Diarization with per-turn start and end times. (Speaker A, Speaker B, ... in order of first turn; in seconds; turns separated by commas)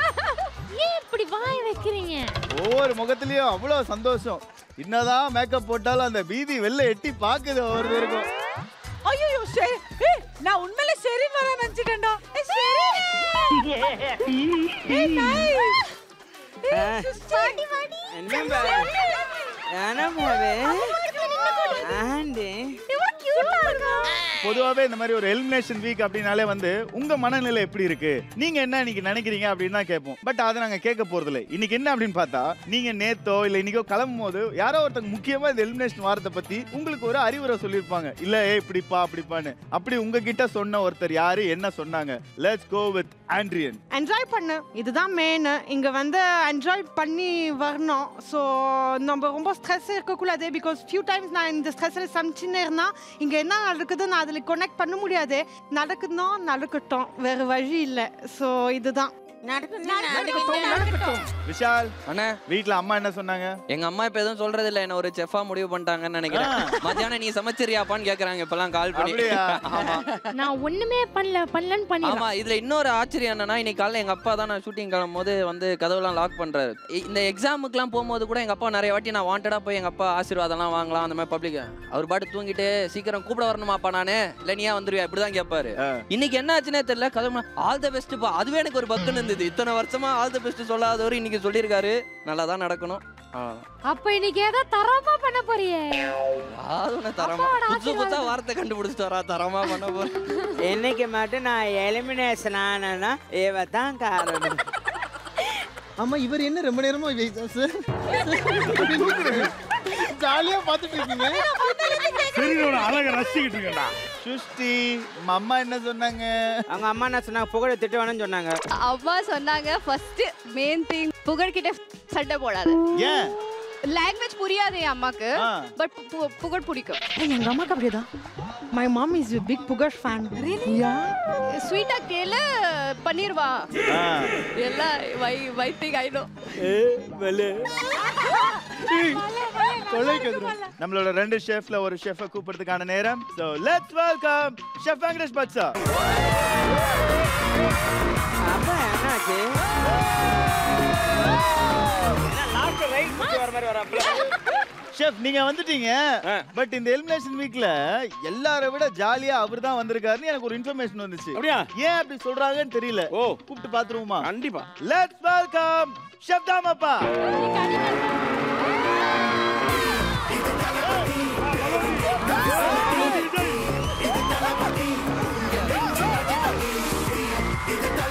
Speaker A: 0.7-2.3, Speaker B: 2.5-8.3, Speaker C: 16.7-17.2, Speaker C: 18.1-18.9, Speaker C: 19.8-20.7, Speaker C: 21.8-22.5, Speaker B: 24.4-43.8, Speaker D: 43.9-59.1, Speaker C: 59.6-60.2, Speaker D: 59.8-61.3, Speaker E: 60.4-60.8, Speaker B: 61.5-61.9, Speaker B: 62.5-63.5, Speaker F: 63.7-70.1, Speaker B: 66.3-66.8, Speaker B: 68.9-69.6, Speaker A: 70.3-72.2, Speaker F: 72.0-93.6, Speaker A: 93.9-96.0, Speaker F: 96.6-100.1, Speaker A: 97.2-98.3, Speaker C: 100.6-104.6, Speaker G: 106.0-107.7, Speaker G: 108.5-109.5, Speaker G: 110.0-111.4, Speaker E: 111.5-113.0, Speaker H: 112.3-113.9, Speaker B: 114.2-116.6, Speaker C: 116.7-118.5, Speaker E: 118.8-122.8, Speaker B: 123.0-123.3, Speaker E: 123.8-127.0, Speaker B: 125.4-125.7, Speaker D: 127.2-128.1, Speaker D: 128.7-131.1, Speaker E: 131.5-133.7, Speaker B: 133.9-134.3, Speaker E: 134.6-136.3, Speaker B: 136.8-137.7, Speaker D: 139.4-140.5, Speaker G: 139.9-140.6, Speaker B: 140.8-145.7, Speaker C: 148.5-149.4, Speaker H: 152.3-154.2, Speaker B: 154.9-156.0, Speaker B: 156.5-164.3, Speaker H: 161.3-161.7, Speaker H: 163.1-163.4, Speaker H: 164.2-164.7, Speaker B: 164.8-167.0, Speaker E: 167.3-168.0, Speaker H: 171.8-172.1, Speaker F: 172.7-173.1, Speaker H: 172.9-173.6